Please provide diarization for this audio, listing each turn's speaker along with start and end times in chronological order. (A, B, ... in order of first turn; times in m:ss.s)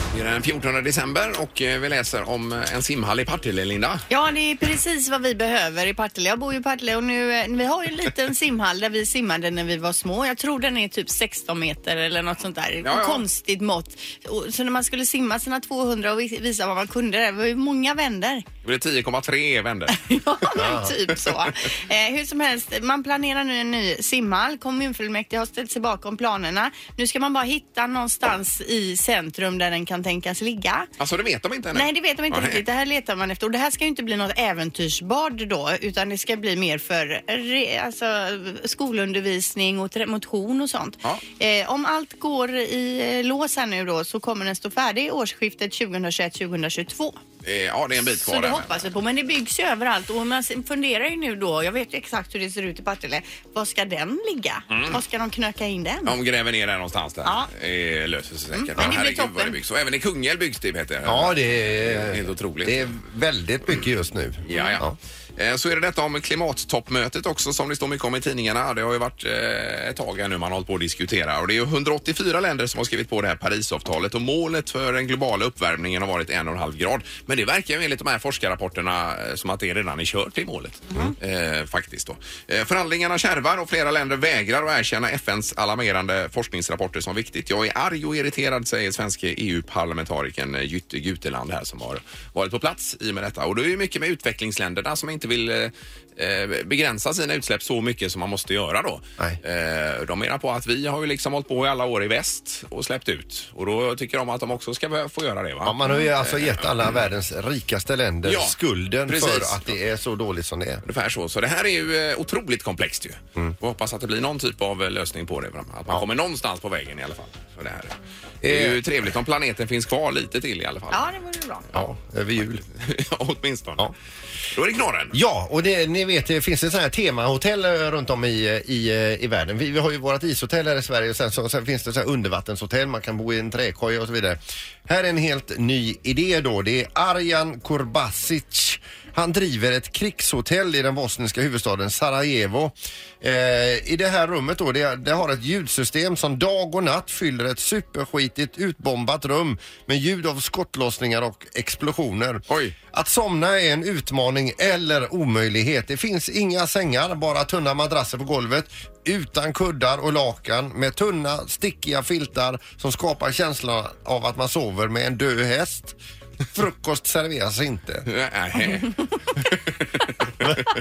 0:00.1-0:04.0 A
0:04.1-0:18.4 B
0:12.8-0:13.2 A
0:18.6-0:20.0 A
0:19.9-0:30.9 B
0:20.6-0:20.9 C
0:31.0-0:32.6 A
0:31.7-0:47.2 B
0:47.4-0:48.9 A
0:48.1-0:56.1 B
0:54.7-0:55.0 A
0:56.0-1:02.9 A
0:57.2-0:57.5 B
0:58.5-0:59.6 B
1:01.0-1:05.0 C
1:04.4-1:46.9 A
1:04.5-1:04.8 B
1:45.6-1:50.8 C
1:48.2-1:49.7 A
1:50.8-2:01.1 A
1:58.4-1:58.8 C
2:00.9-2:01.6 B
2:01.7-2:02.6 C
2:02.7-2:03.9 A
2:04.5-2:05.2 A
2:05.1-2:46.0 C
2:32.5-2:32.8 A
2:46.5-2:48.1 C
2:48.1-2:50.4 A